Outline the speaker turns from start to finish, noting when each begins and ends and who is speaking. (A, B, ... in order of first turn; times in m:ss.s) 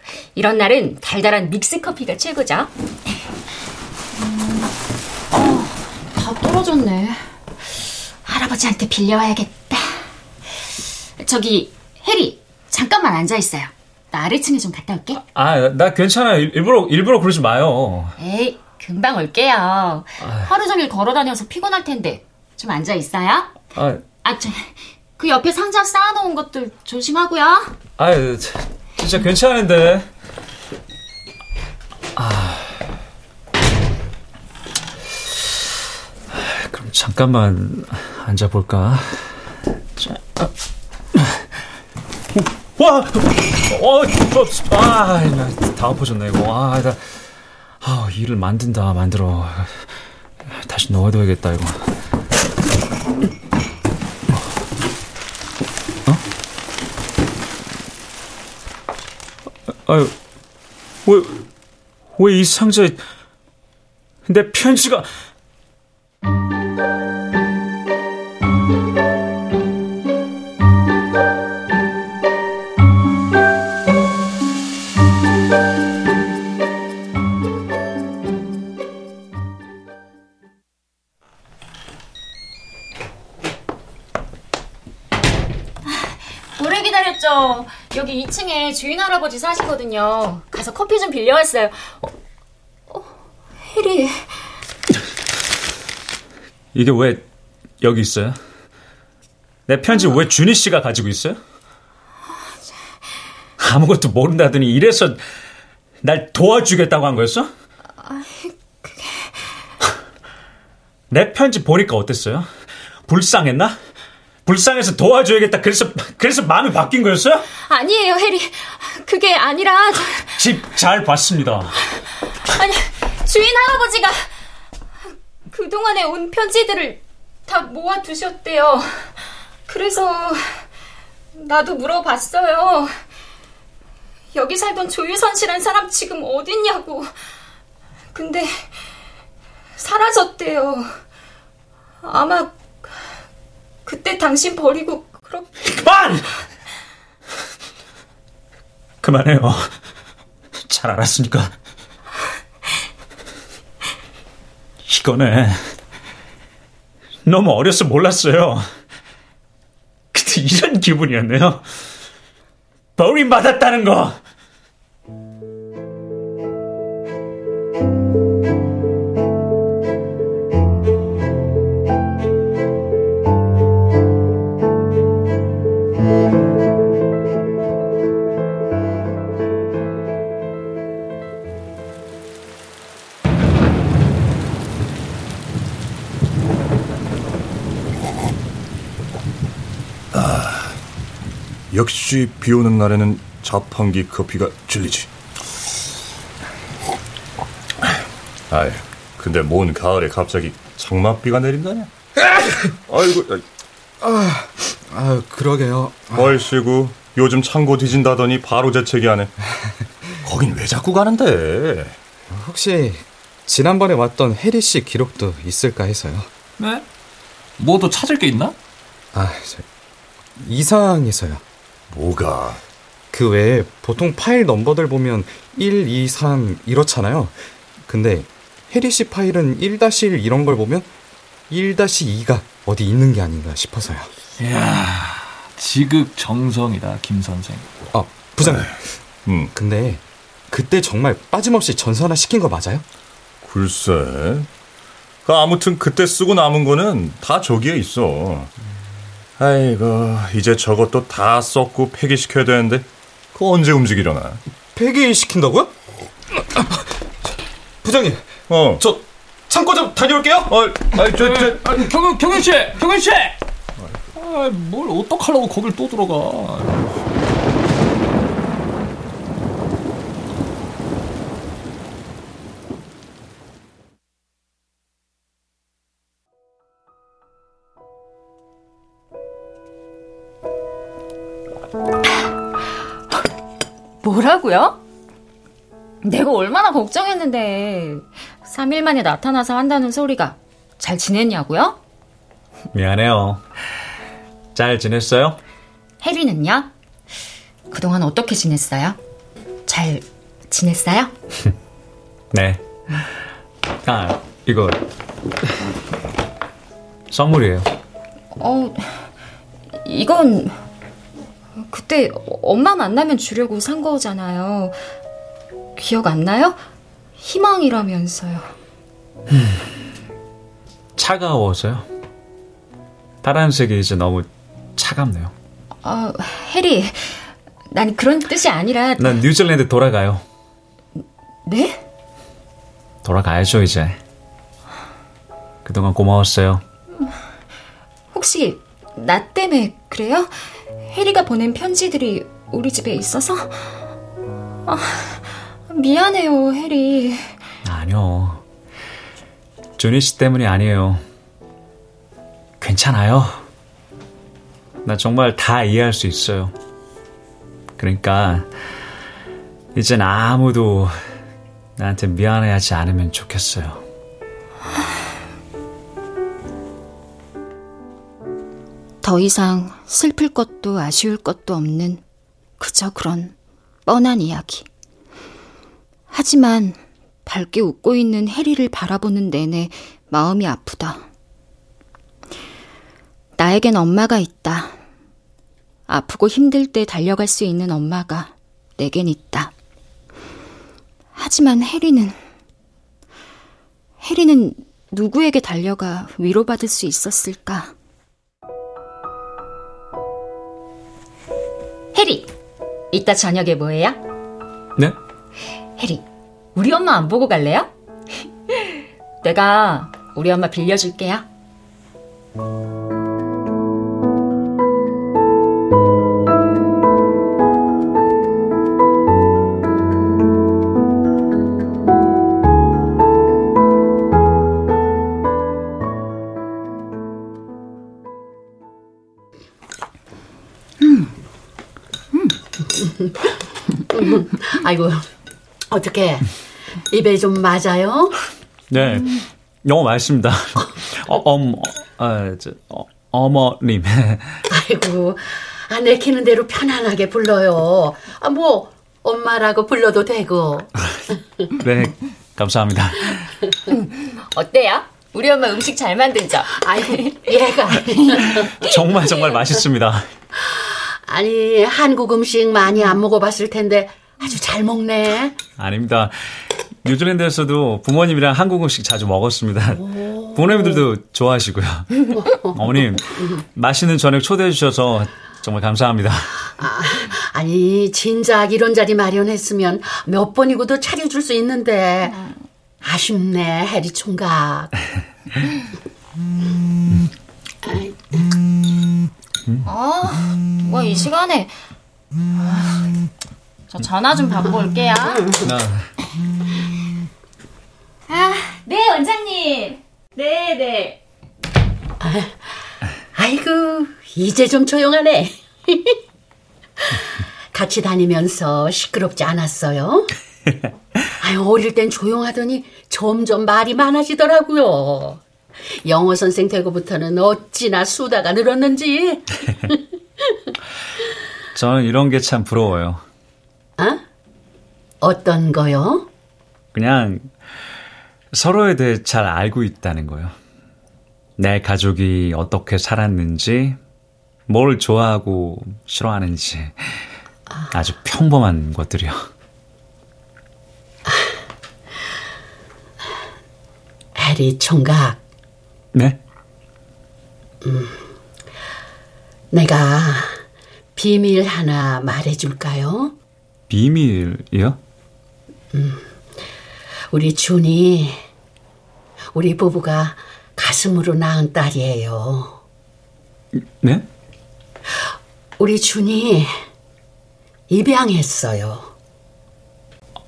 0:00.4-0:02.7 A
0:04.2-0:04.7 A
0:05.3-0:07.2 A
0:08.2-0:10.1 A
0:11.2-0:15.2 A
0:15.2-0:18.2 B
0:18.2-0:23.5 A
0:20.2-0:20.5 B
0:23.8-0:24.0 B
0:24.2-0:27.7 A
0:28.0-0:30.1 B
0:32.2-0:32.8 B
0:36.3-0:39.5 B
0:40.0-0:40.5 B
0:41.1-0:41.5 B
0:42.4-0:47.2 B
0:47.8-0:49.9 B
0:50.4-0:51.8 B
0:59.8-1:00.1 B
1:01.0-1:01.5 B
1:02.2-1:03.0 B
1:04.3-1:05.1 B
1:25.9-1:32.1 A
1:33.6-1:34.4 A
1:36.7-1:37.2 B
1:37.8-1:38.4 B
1:39.7-1:41.4 B
1:43.6-1:45.2 B
1:46.0-1:47.5 B
1:48.0-1:49.5 A
1:51.1-1:52.5 B
1:53.1-1:53.8 B
1:54.5-1:57.5 B
1:57.6-2:00.4 A
2:00.4-2:01.8 B
2:02.5-2:04.3 A
2:05.5-2:09.2 A
2:09.7-2:10.6 A
2:11.4-2:12.9 A
2:14.3-2:17.1 A
2:18.1-2:18.8 A
2:19.8-2:21.0 A
2:22.0-2:22.6 A
2:23.9-2:25.6 A
2:25.7-2:26.2 B
2:29.0-2:29.7 B
2:30.7-2:31.5 B
2:34.9-2:35.6 B
2:37.3-2:38.7 B
2:40.1-2:41.7 B
2:43.0-2:44.2 B
3:10.1-3:10.8 C
3:11.7-3:15.1 C
3:18.5-3:21.9 C
3:22.9-3:23.4 C
3:24.0-3:26.4 D
3:26.2-3:29.3 C
3:30.2-3:32.0 C
3:32.3-3:36.3 D
3:36.6-3:36.8 E
3:37.6-3:38.6 E
3:39.1-3:39.7 D
3:40.4-3:41.4 D
3:41.9-3:42.6 C
3:43.1-3:50.9 D
3:51.5-3:54.1 D
3:54.4-3:57.7 E
3:57.9-3:58.9 D
3:58.4-3:58.7 C
3:59.3-3:59.5 C
3:59.5-4:02.8 D
4:03.4-4:04.5 C
4:05.2-4:08.5 C
4:09.4-4:14.4 C
4:14.8-4:15.7 D
4:17.8-4:18.2 D
4:18.5-4:18.8 C
4:18.8-4:20.6 D
4:20.5-4:21.7 C
4:21.0-4:23.4 E
4:24.2-4:26.9 E
4:44.0-4:44.8 A
4:46.0-4:51.8 A
4:52.7-4:53.4 B
4:54.5-4:55.4 B
4:56.0-4:56.7 A
4:57.7-4:59.0 A
4:59.7-5:01.1 A
5:02.3-5:03.1 B
5:03.8-5:04.8 B
5:07.1-5:07.7 B
5:08.4-5:09.1 A
5:09.8-5:10.6 A
5:11.6-5:14.8 A
5:15.8-5:16.6 A
5:17.2-5:18.5 A
5:19.3-5:19.7 B
5:21.0-5:21.9 B
5:23.2-5:25.3 B
5:25.8-5:29.2 A
5:29.0-5:30.2 B
5:31.5-5:31.8 A
5:33.0-5:34.0 B
5:35.6-5:36.6 B
5:38.1-5:43.8 A
5:44.7-5:47.4 A
5:47.6-5:48.4 B
5:49.8-5:51.0 B
5:52.6-5:53.4 B
5:54.8-5:56.5 B
5:57.8-5:58.5 B
5:59.8-6:01.0 B
6:01.8-6:03.8 B
6:09.0-6:12.0 A
6:12.6-6:13.3 A
6:13.9-6:14.7 A
6:16.1-6:21.0 A
6:23.4-6:24.8 A
6:25.9-6:29.5 A
6:31.2-6:32.2 A
6:34.0-6:37.7 A
6:41.9-6:42.3 A
6:42.9-6:44.0 A
6:45.8-6:46.0 A
6:46.6-6:47.7 A
6:48.5-6:51.2 A
7:13.9-7:15.0 F
7:15.7-7:16.2 F
7:16.9-7:18.1 F
7:18.7-7:24.4 B
7:24.5-7:30.7 F
7:31.6-7:33.4 B
7:33.7-7:37.3 A
7:36.7-7:38.1 F
7:38.0-7:38.7 A
7:38.6-7:40.0 B
7:41.1-7:45.4 F
7:45.6-7:56.4 B
7:56.6-8:02.0 F
8:02.8-8:04.7 F
8:09.6-8:11.5 A
8:12.4-8:12.9 A
8:13.7-8:15.3 A
8:15.4-8:15.9 B
8:18.1-8:21.0 A
8:23.2-8:25.3 F
8:27.5-8:30.0 F
8:31.2-8:35.2 F
8:35.9-8:39.2 F
8:41.6-8:43.0 B
8:45.0-8:46.0 F
8:46.7-8:47.3 B
8:48.3-8:50.4 B
8:51.4-8:53.8 B
8:54.5-8:56.8 B
8:57.7-8:59.2 B
9:04.2-9:05.2 F
9:05.9-9:06.2 B
9:07.6-9:07.9 F
9:09.5-9:10.3 F
9:11.0-9:13.1 F
9:13.7-9:14.8 B
9:17.1-9:18.2 F
9:19.4-9:22.5 F
9:23.6-9:24.0 B
9:25.6-9:26.5 F
9:27.7-9:28.9 F